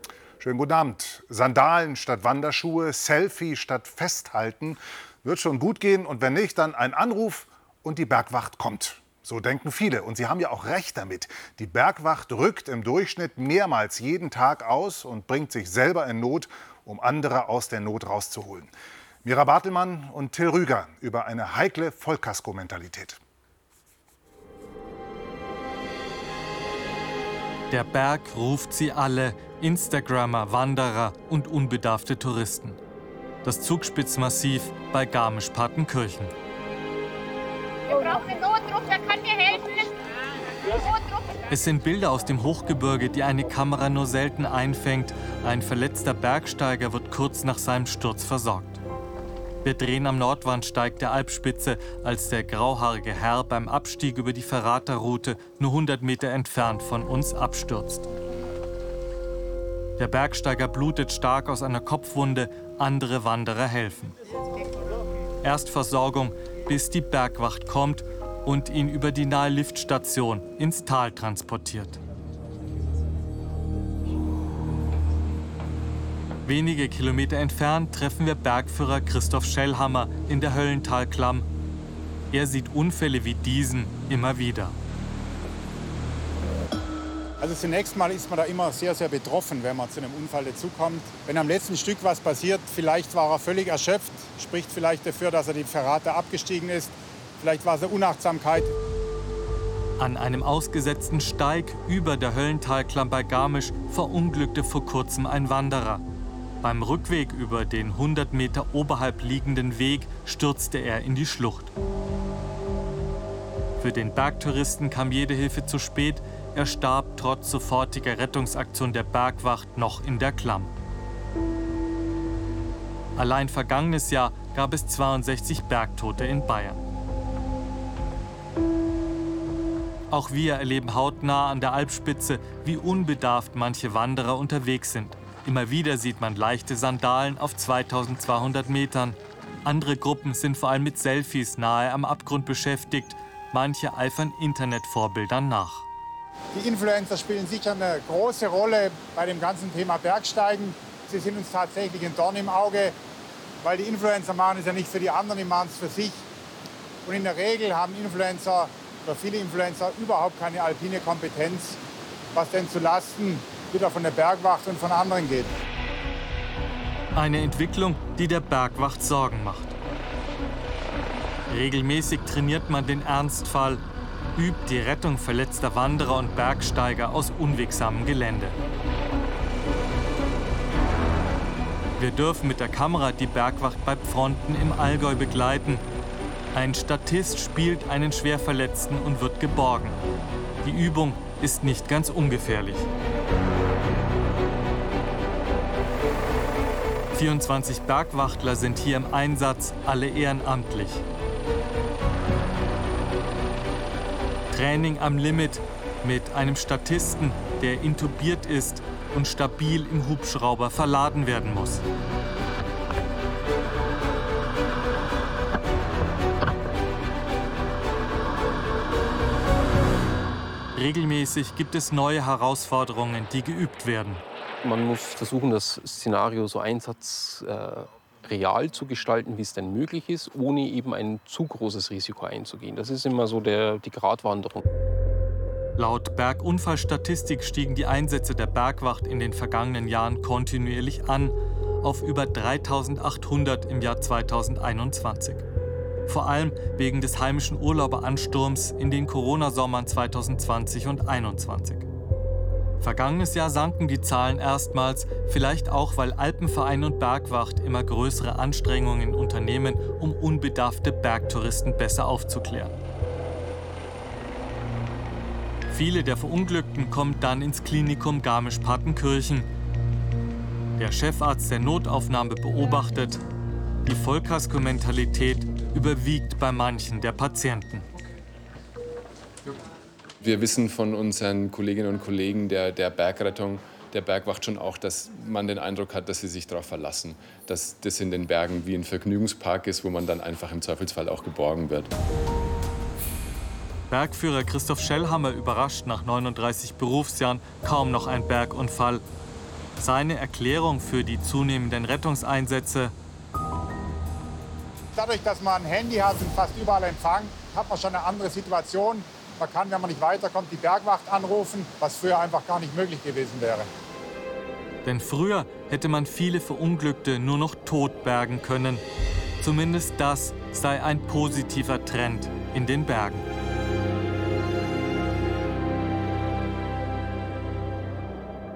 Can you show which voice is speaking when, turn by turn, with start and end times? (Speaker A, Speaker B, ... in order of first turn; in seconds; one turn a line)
Speaker A: 0.4-18.7
Speaker A: 19.2-23.2
Speaker B: 27.7-32.8
Speaker B: 33.4-36.3
Speaker C: 37.9-39.9
Speaker C: 40.7-41.3
Speaker B: 41.5-48.8
Speaker B: 49.6-58.0
Speaker B: 60.0-64.1
Speaker B: 65.4-72.0
Speaker B: 76.5-81.5
Speaker B: 82.3-84.8
Speaker D: 87.4-98.7
Speaker B: 100.0-106.0
Speaker B: 106.6-111.7
Speaker B: 113.8-120.7
Speaker B: 123.2-126.8
Speaker B: 130.1-145.9
Speaker D: 146.5-152.9
Speaker D: 153.6-156.2
Speaker D: 157.0-161.8
Speaker D: 162.3-165.5
Speaker B: 167.1-169.8
Speaker B: 171.5-173.8
Speaker B: 174.3-178.5
Speaker B: 182.0-185.8
Speaker B: 186.5-190.0
Speaker B: 190.6-192.9
Speaker B: 197.1-201.0
Speaker B: 204.5-211.8
Speaker B: 220.8-224.2
Speaker E: 224.6-234.6
Speaker B: 235.8-245.4
Speaker B: 246.1-251.9
Speaker B: 252.8-262.8
Speaker B: 265.7-269.5
Speaker B: 270.8-273.2
Speaker B: 273.8-277.9
Speaker F: 280.2-291.9
Speaker B: 293.9-299.0
Speaker B: 299.8-302.9
Speaker D: 304.9-313.7
Speaker B: 314.8-318.8
Speaker B: 319.4-323.2